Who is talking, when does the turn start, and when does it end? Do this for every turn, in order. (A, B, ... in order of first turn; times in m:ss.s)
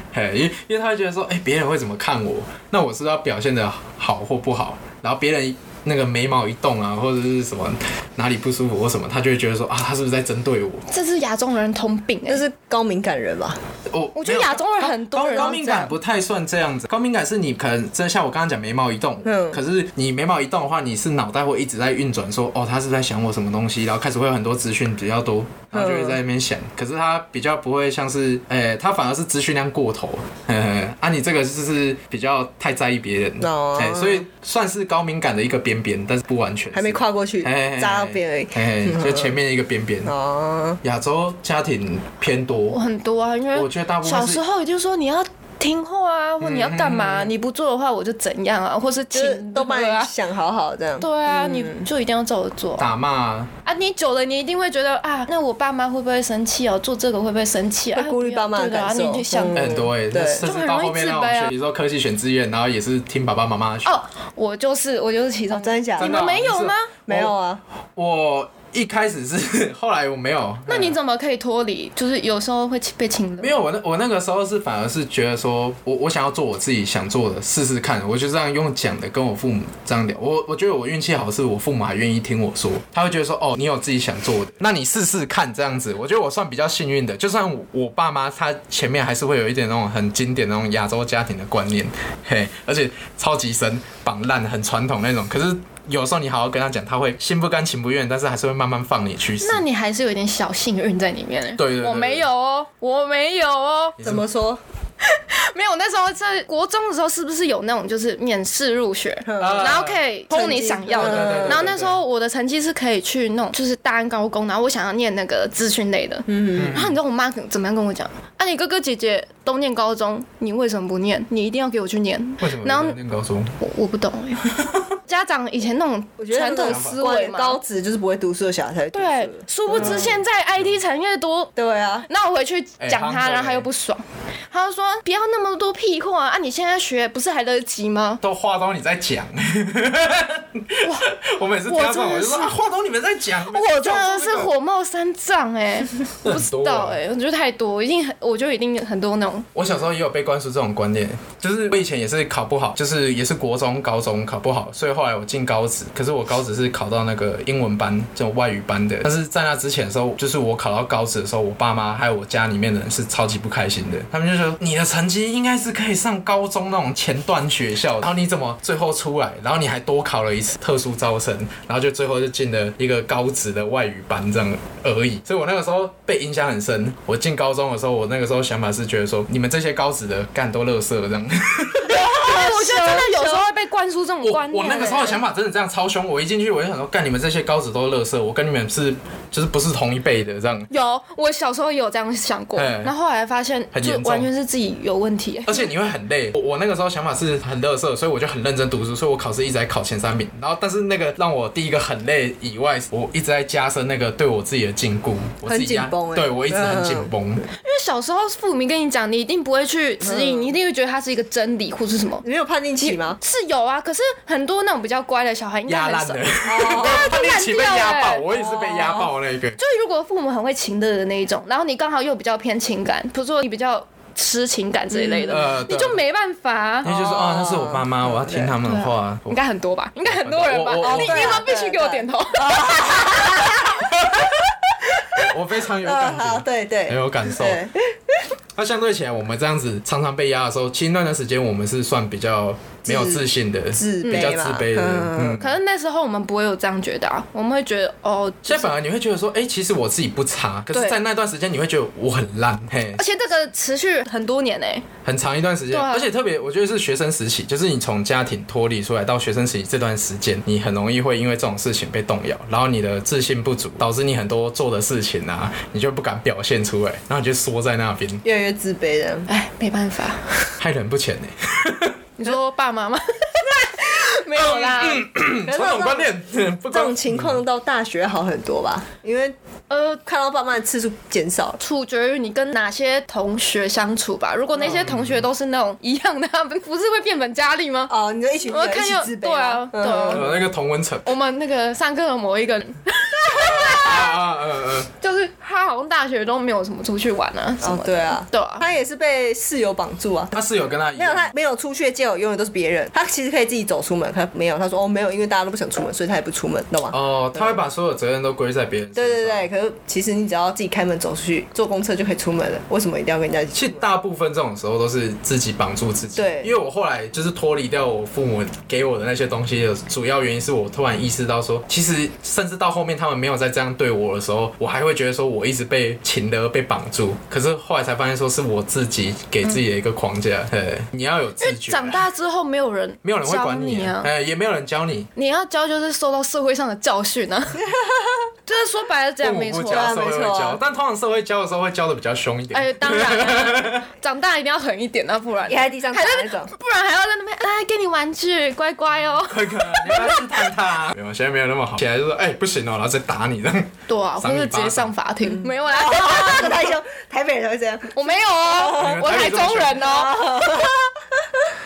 0:00.1-0:10.8 A
0:10.9-0:12.4 B
0:12.3-0:13.6 C
0:13.9-0:40.1 A
0:14.2-0:15.9 B
0:19.2-0:19.6 C
0:25.7-0:26.2 C
0:33.4-0:34.2 C
0:36.7-0:39.4 C
0:40.0-0:40.8 C
0:40.8-0:42.8 A
0:42.7-0:50.1 B
0:43.5-0:44.4 A
0:46.4-0:47.3 A
0:49.1-0:51.8 C
0:51.0-0:52.9 B
0:52.8-0:53.5 A
0:53.6-0:59.7 B
0:57.9-1:00.4 C
0:59.5-1:03.9 A
1:00.3-1:01.5 B
1:03.8-1:06.9 B
1:05.5-1:06.2 C
1:06.0-1:07.3 A
1:07.1-1:07.6 C
1:08.0-1:11.0 A
1:10.7-1:13.6 B
1:13.4-1:39.6 A
1:39.4-1:44.0 B
1:41.6-1:42.2 A
1:44.0-1:44.2 A
1:44.0-1:44.6 C
1:45.0-2:03.0 B
1:49.2-1:49.7 C
1:49.4-1:50.0 A
1:50.3-1:51.7 C
1:50.9-1:52.0 A
1:56.3-1:56.8 C
1:56.6-1:57.0 A
2:02.4-2:03.6 A
2:03.6-2:04.5 B
2:05.0-2:07.6 B
2:06.2-2:10.2 C
2:06.6-2:07.0 A
2:08.9-2:11.5 B
2:09.7-2:10.7 A
2:11.6-2:12.1 C
2:12.1-2:18.2 B
2:12.8-2:13.7 A
2:18.2-2:24.5 A
2:21.7-2:22.6 B
2:23.4-2:29.5 B
2:26.2-2:27.0 A
2:29.5-3:02.3 A
3:01.9-3:03.5 C
3:01.9-3:05.2 B
3:04.2-3:10.7 A
3:10.7-3:15.7 B
3:12.5-3:12.9 A
3:13.7-3:14.3 A
3:15.4-3:27.5 A
3:25.4-3:27.1 C
3:27.6-3:32.2 B
3:30.0-3:30.5 C
3:32.2-3:33.2 C
3:32.8-3:39.0 B
3:35.7-3:39.6 A
3:36.4-3:37.1 C
3:39.6-3:46.9 B
3:44.9-3:45.5 C
3:45.3-3:46.0 A
3:46.8-3:49.4 A
3:46.8-3:48.6 C
3:48.6-3:52.6 B
3:50.0-3:51.4 A
3:50.8-3:54.3 C
3:53.9-3:54.2 A
3:54.8-3:55.2 C
3:55.1-3:57.6 A
3:55.8-3:58.3 C
3:58.6-4:05.6 A
4:02.8-4:05.4 C
4:04.0-4:04.3 B
4:05.4-4:08.7 B
4:08.4-4:13.0 A
4:13.0-4:14.8 B
4:15.0-4:28.2 A
4:15.7-4:16.1 B
4:28.2-4:29.3 C
4:29.3-4:30.5 B
4:30.6-4:31.9 A
4:32.2-4:35.1 B
4:34.3-4:37.4 A
4:35.4-4:36.1 C
4:36.7-4:39.3 C
4:39.7-4:40.0 B
4:40.0-4:41.6 C
4:41.6-4:47.9 B
4:44.6-4:45.2 A
4:47.9-4:50.3 C
4:48.5-4:50.4 B
4:50.1-4:51.1 A
4:51.0-4:54.2 B
4:53.3-4:54.9 A
4:54.9-4:58.6 B
4:57.6-5:00.3 C
5:00.3-5:01.3 A
5:00.9-5:07.6 C
5:06.9-5:09.5 A
5:08.9-5:13.8 C
5:13.5-5:32.0 A
5:16.2-5:16.5 C
5:31.4-5:34.1 B
5:33.0-5:35.1 A
5:35.2-5:37.6 B
5:37.6-5:38.3 C
5:38.5-5:39.9 B
5:39.2-5:43.8 A
5:39.7-5:40.6 C
5:42.5-5:50.2 B
5:45.5-5:46.5 C
5:49.2-5:54.9 A
5:53.9-5:56.6 B
5:55.3-5:59.1 C
5:57.9-6:00.2 B
5:58.7-5:59.8 A
5:59.7-6:01.4 C